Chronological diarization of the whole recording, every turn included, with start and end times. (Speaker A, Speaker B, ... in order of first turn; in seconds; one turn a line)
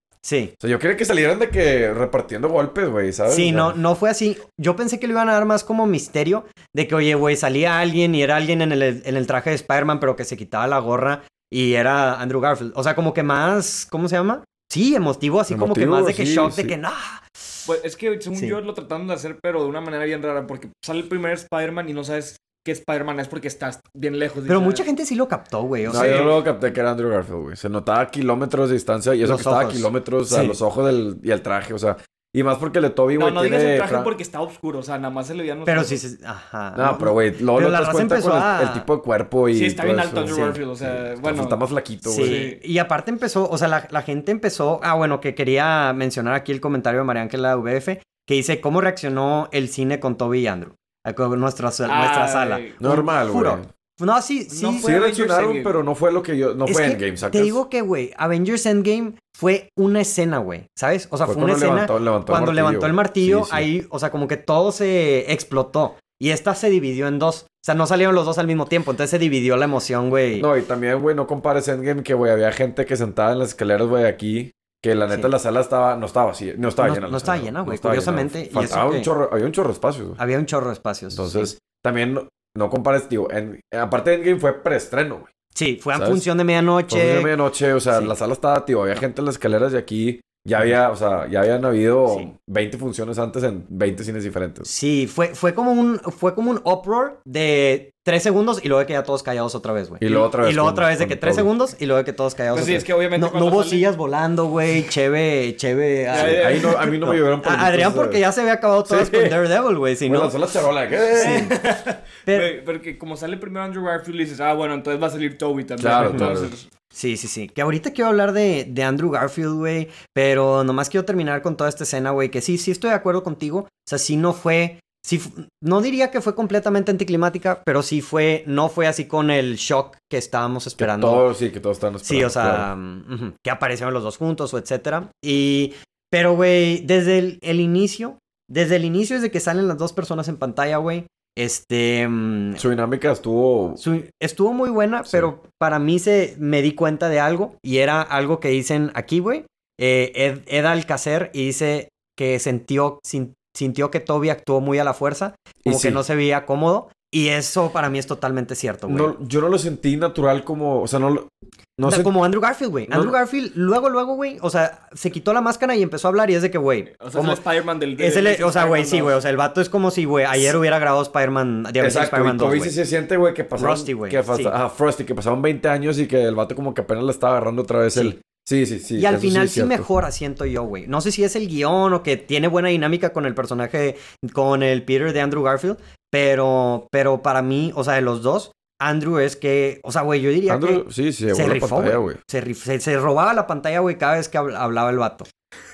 Speaker A: 0.2-0.5
Speaker B: 0.6-3.8
Speaker A: 3.3-17.6
Speaker B: 15.5-16.7
Speaker C: 17.7-24.9
Speaker A: 24.5-26.3
Speaker B: 25.9-34.1
Speaker C: 25.9-26.4
Speaker A: 29.2-30.6
Speaker C: 33.2-36.0
Speaker A: 35.7-38.9
Speaker B: 36.8-42.4
Speaker C: 39.5-41.6
Speaker A: 40.3-40.6
Speaker A: 42.0-54.9
Speaker C: 42.2-42.6
Speaker C: 51.9-52.8
Speaker B: 52.8-53.7
Speaker C: 54.5-55.8
Speaker B: 54.8-57.6
Speaker A: 56.7-70.5
Speaker B: 61.2-63.7
Speaker B: 70.4-80.2
Speaker A: 76.8-79.1
Speaker A: 80.2-81.5
Speaker B: 81.1-85.3
Speaker A: 85.5-87.3
Speaker B: 85.9-86.2
Speaker B: 86.9-94.7
Speaker A: 94.7-110.3
Speaker B: 100.0-101.5
Speaker C: 102.5-103.9
Speaker C: 106.1-107.0
Speaker B: 106.2-108.2
Speaker B: 108.9-109.5
Speaker B: 110.1-111.5
Speaker C: 111.2-116.7
Speaker A: 111.2-111.5
Speaker A: 112.3-112.5
Speaker B: 115.8-116.5
Speaker A: 116.0-116.4
Speaker A: 116.9-131.3
Speaker B: 130.8-132.7
Speaker A: 132.0-142.6
Speaker B: 142.6-143.8
Speaker A: 143.8-159.1
Speaker B: 155.6-156.0
Speaker B: 158.9-162.2
Speaker A: 161.8-167.4
Speaker B: 162.9-163.2
Speaker C: 167.0-169.2
Speaker A: 168.0-172.8
Speaker B: 171.8-179.9
Speaker A: 173.6-174.6
Speaker A: 179.0-195.3
Speaker B: 190.5-192.2